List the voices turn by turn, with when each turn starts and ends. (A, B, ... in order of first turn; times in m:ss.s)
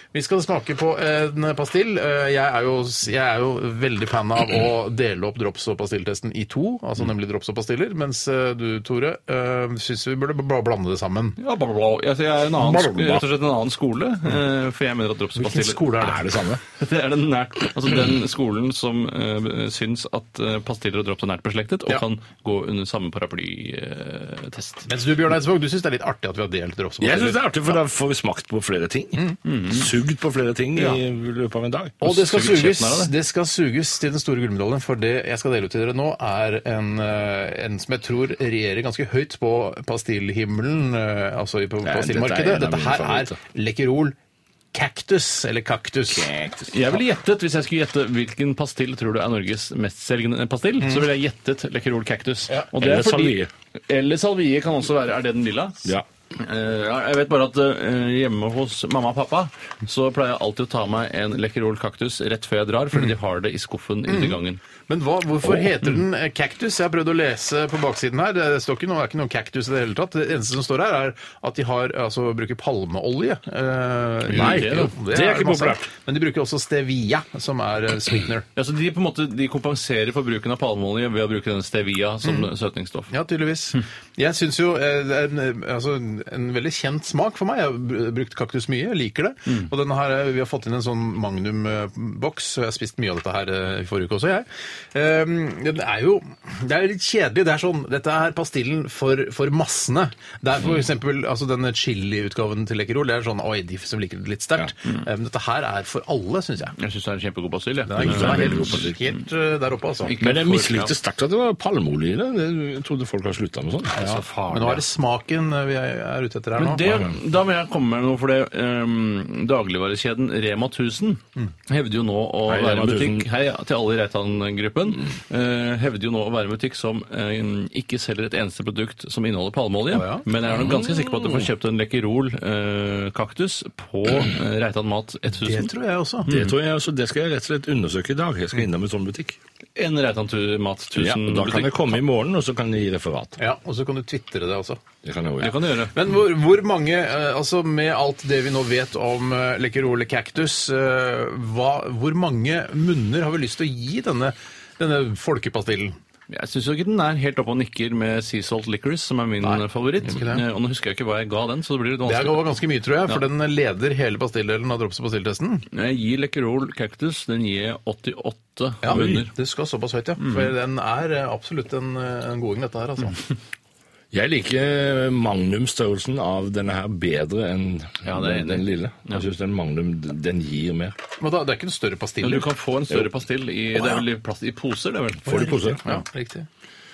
0:00.1-0:11.4 A
0:11.4-0:15.8 B
0:12.6-0:13.2 C
0:15.4-0:16.2 A
0:16.0-0:16.6 C
0:16.7-0:24.9 B
0:24.9-0:27.6 A
0:27.0-0:32.0 C
0:29.4-0:29.9 B
0:32.0-0:44.1 A
0:32.0-0:33.1 B
0:41.8-0:43.4 C
0:44.7-0:46.3 A
0:46.1-0:46.8 C
0:46.7-1:04.6 B
0:50.8-0:51.0 A
0:52.8-0:53.5 C
1:04.1-1:18.4 A
1:05.4-1:05.7 C
1:14.3-1:14.9 B
1:14.3-1:15.8 C
1:18.5-1:23.1 B
1:23.1-1:46.8 A
1:46.8-1:48.9 B
1:47.9-1:50.1 A
1:48.0-1:49.0 C
1:50.0-1:50.9 B
1:50.2-1:54.1 C
1:54.0-1:54.8 B
1:54.0-1:56.9 A
1:56.6-2:15.7 B
1:56.8-1:57.1 C
2:02.5-2:03.3 C
2:09.9-2:10.2 A
2:10.4-2:11.4 C
2:15.4-2:16.3 A
2:16.2-2:16.5 B
2:16.3-2:19.4 C
2:19.8-2:22.0 B
2:20.9-2:23.4 C
2:23.4-2:24.8 A
2:25.0-2:25.5 C
2:25.4-2:26.0 B
2:25.9-2:36.0 A
2:36.3-2:42.4 B
2:39.4-2:40.4 A
2:42.0-2:45.6 A
2:45.7-2:49.3 B
2:48.8-2:53.2 A
2:48.9-2:49.2 C
2:50.2-2:50.5 B
2:54.1-3:01.0 C
2:58.0-2:59.2 B
3:01.2-3:02.5 A
3:02.2-3:05.6 B
3:05.2-3:05.8 C
3:05.3-3:06.5 A